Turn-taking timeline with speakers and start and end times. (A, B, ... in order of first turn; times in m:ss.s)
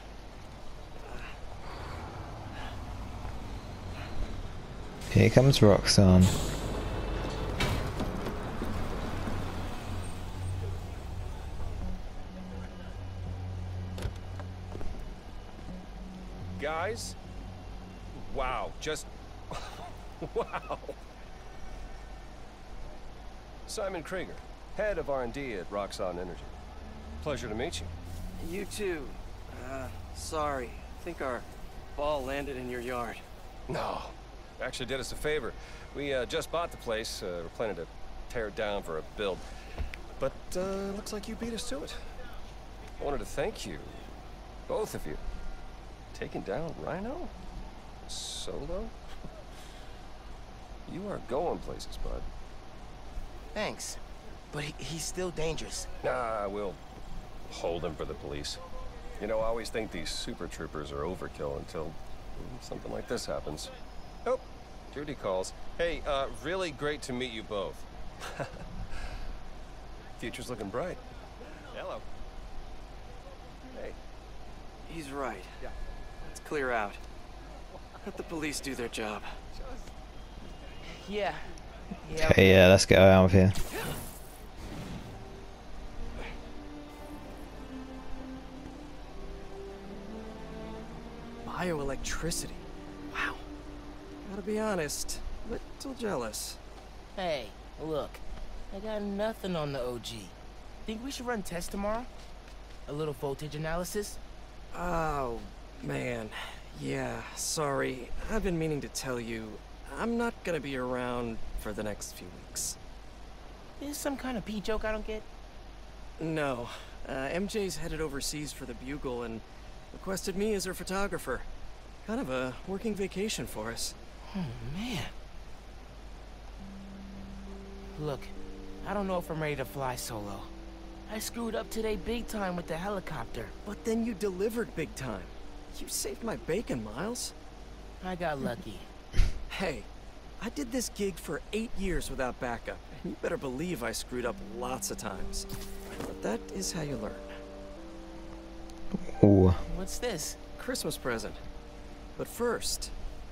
0:05.1-0:06.3 A
0:16.6-0:17.2 B
0:18.1-0:21.0 B
0:23.6-0:26.6 B
0:27.2-0:27.9 B
0:28.4-0:33.2 C
0:33.7-0:39.4 B
0:40.2-0:42.1 B
0:43.0-0:44.1 B
0:44.7-0:45.2 B
0:46.1-0:47.3 B
0:48.1-0:48.9 B
0:50.8-0:52.3 B
0:53.5-0:54.0 D
0:54.5-0:55.9 D
0:56.0-0:56.8 B
0:57.5-0:58.6 B
0:59.2-1:08.6 B
1:10.2-1:11.0 B
1:11.7-1:12.0 B
1:13.7-1:14.0 B
1:14.8-1:15.6 C
1:16.2-1:17.0 C
1:18.0-1:19.3 C
1:21.0-1:22.6 D
1:22.1-1:23.5 A
1:31.4-1:33.4 C
1:34.2-1:36.6 C
1:37.2-1:42.1 D
1:42.9-1:44.2 D
1:44.7-1:52.8 C
1:53.8-1:55.2 D
1:56.2-2:01.5 C
2:02.0-2:03.9 C
2:04.3-2:05.1 D
2:07.9-2:10.5 D
2:11.1-2:13.5 D
2:13.6-2:17.3 C
2:18.0-2:18.9 D
2:19.5-2:27.3 C
2:29.1-2:29.6 A
2:29.6-2:30.4 D
2:30.6-2:31.4 C
2:32.2-2:32.9 C